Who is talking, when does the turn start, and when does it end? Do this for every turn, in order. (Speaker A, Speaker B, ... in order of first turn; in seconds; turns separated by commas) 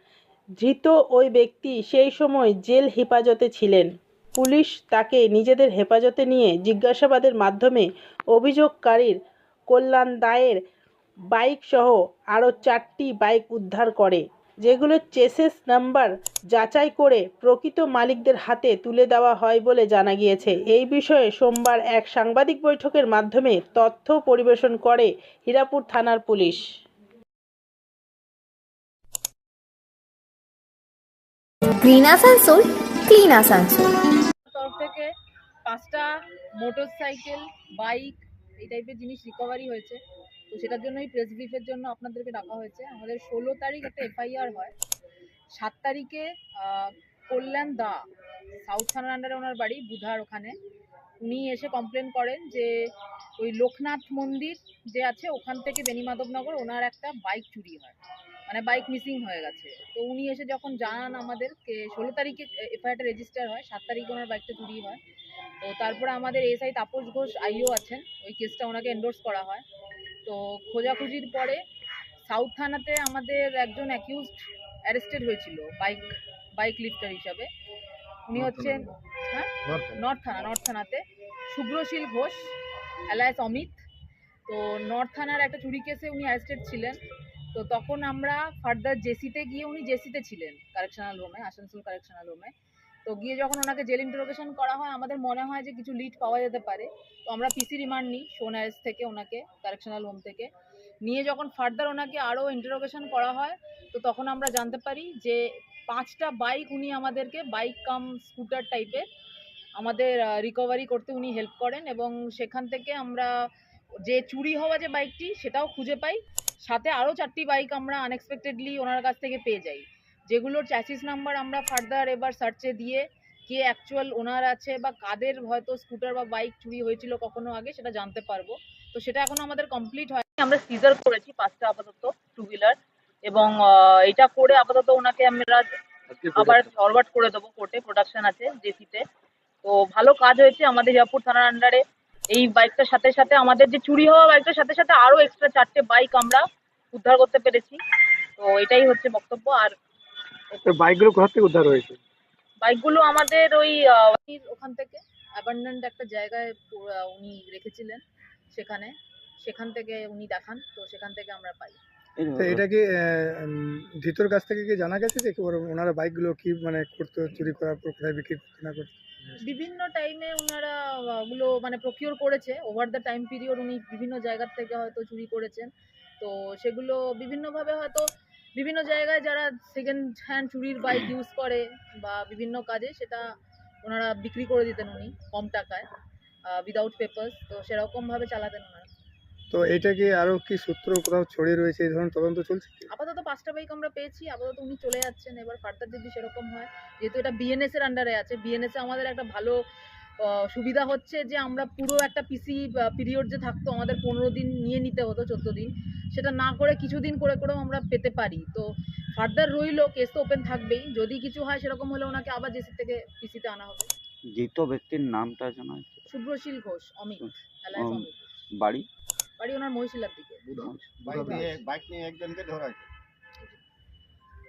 Speaker A: 0.6-9.2, Speaker A: 9.7-10.6, Speaker A: 11.3-26.6, Speaker B: 31.8-33.9, Speaker C: 34.4-35.1, Speaker C: 35.6-40.0, Speaker C: 40.5-44.7, Speaker C: 45.5-48.0, Speaker C: 48.6-50.5, Speaker C: 51.2-52.7, Speaker C: 53.4-58.0, Speaker C: 58.5-65.0, Speaker C: 65.6-69.6, Speaker C: 70.2-71.6, Speaker C: 72.2-77.5, Speaker C: 78.3-82.5, Speaker C: 83.1-83.8, Speaker C: 84.5-87.0, Speaker C: 87.5-92.5, Speaker C: 93.0-100.5, Speaker C: 101.0-109.0, Speaker C: 109.8-113.3, Speaker C: 114.0-135.7, Speaker C: 136.3-139.0, Speaker C: 139.6-147.8, Speaker C: 148.4-149.7, Speaker C: 150.5-150.8, Speaker D: 150.6-152.0, Speaker C: 152.6-158.0, Speaker C: 158.5-161.8, Speaker E: 162.2-162.6, Speaker D: 162.3-169.0, Speaker C: 169.4-183.2, Speaker C: 183.8-185.9, Speaker C: 186.5-188.9, Speaker D: 189.5-192.8, Speaker C: 192.9-199.6, Speaker C: 200.2-213.9, Speaker E: 214.3-216.0, Speaker C: 216.1-218.4, Speaker E: 217.2-218.9, Speaker C: 219.4-220.4, Speaker F: 220.5-222.9, Speaker E: 220.6-221.6